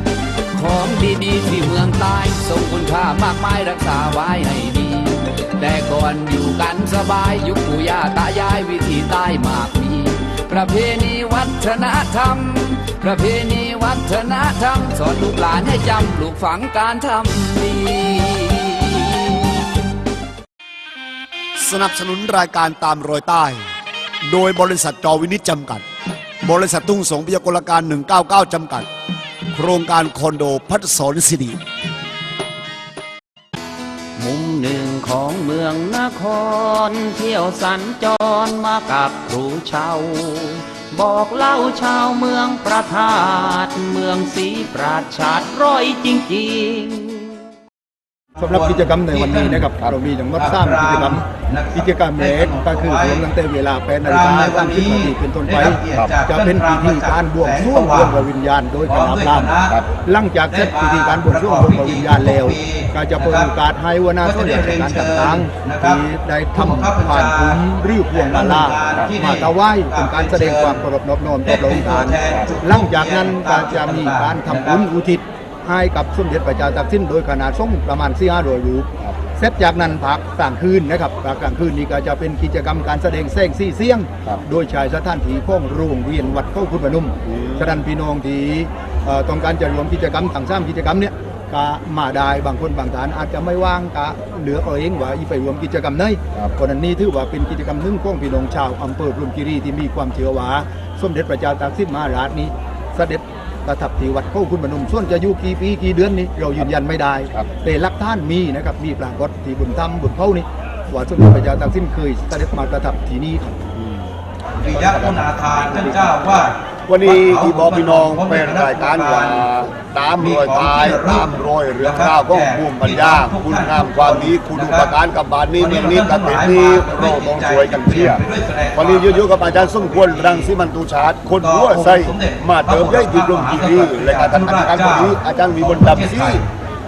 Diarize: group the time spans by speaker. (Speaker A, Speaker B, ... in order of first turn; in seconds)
Speaker A: 0.5-19.5
Speaker B: 21.6-23.6, 24.2-25.8, 26.4-28.9, 29.5-31.6, 87.2-87.8, 113.8-114.1, 114.7-116.2, 116.9-128.2, 128.8-136.4
Speaker C: 34.2-47.3
Speaker D: 48.4-49.7, 50.4-53.2, 54.0-58.3, 58.9-59.8, 60.5-63.5, 64.2-66.0, 66.5-70.8, 71.5-74.9, 114.6-119.5, 120.2-124.9, 125.6-130.5, 131.4-136.5
Speaker E: 48.4-113.7